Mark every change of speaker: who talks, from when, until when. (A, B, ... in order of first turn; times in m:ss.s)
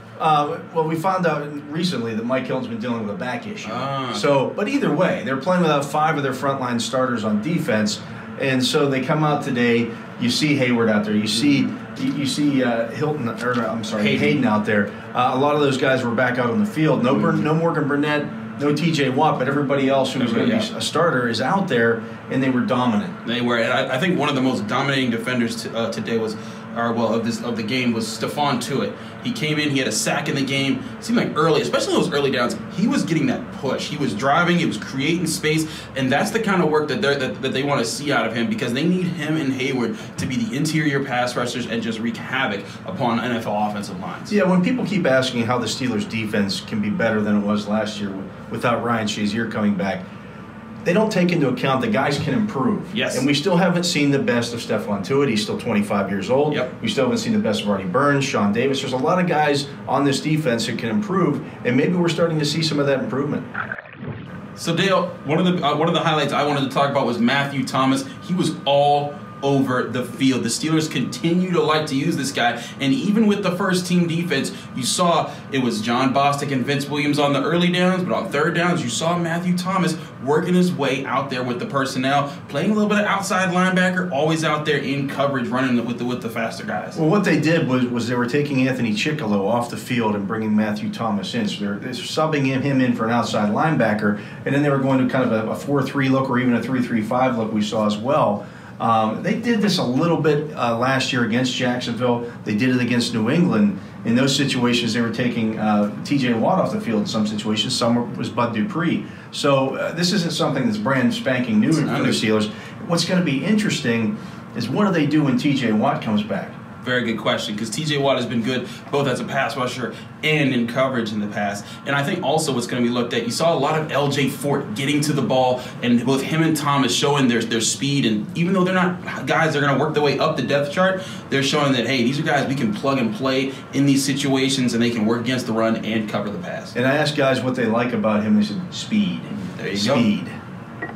0:00.2-0:23.2 A
0:03.6-0:04.3 B
0:14.0-0:14.4 B
0:17.1-0:17.4 B
0:20.2-0:20.7 B
0:23.2-0:44.3 B
0:44.3-0:50.0 A
0:50.8-1:03.4 A
0:52.9-0:53.2 B
1:04.6-1:27.0 B
1:27.0-1:56.6 A
1:51.8-1:52.2 B
1:56.8-2:16.7 B
2:16.7-2:20.4 A
2:19.4-2:20.0 B